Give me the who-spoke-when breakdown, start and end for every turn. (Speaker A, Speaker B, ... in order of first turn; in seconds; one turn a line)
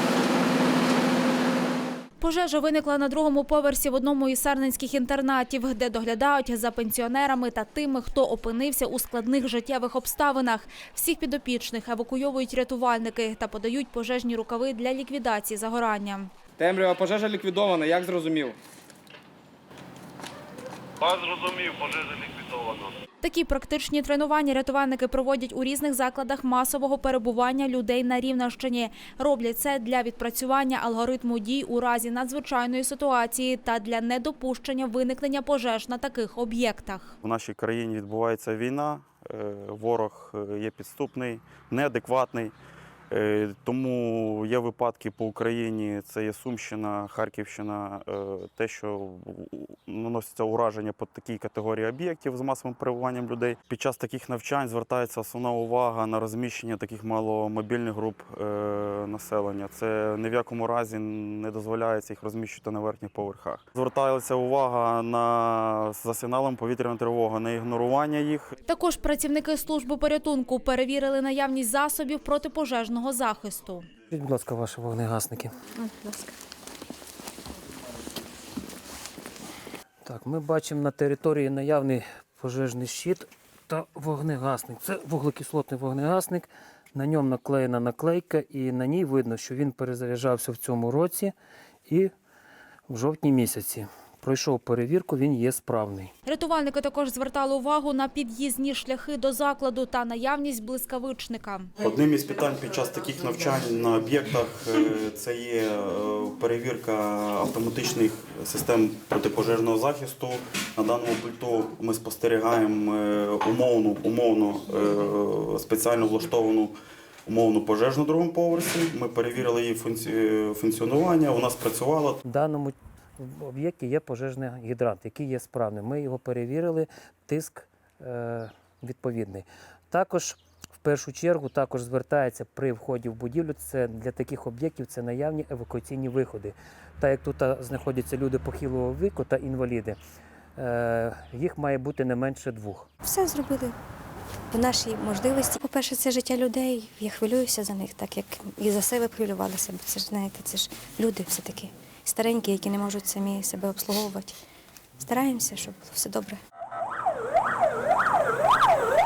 Speaker A: 2.2-16.3
Speaker B: 16.6-18.6
Speaker A: 23.2-37.1
Speaker C: 37.2-42.5
Speaker C: 43.1-68.5
Speaker A: 68.7-73.9
Speaker D: 74.1-75.5
Speaker E: 75.7-76.3
Speaker D: 80.0-91.3
Speaker D: 91.8-92.1
Speaker D: 92.9-96.1
Speaker A: 96.2-101.7
Speaker C: 101.8-116.7
Speaker C: 117.2-122.2
Speaker D: 122.2-140.0
Speaker D: 140.6-142.9
Speaker E: 143.0-143.7
Speaker E: 144.5-154.4
Speaker E: 155.0-156.4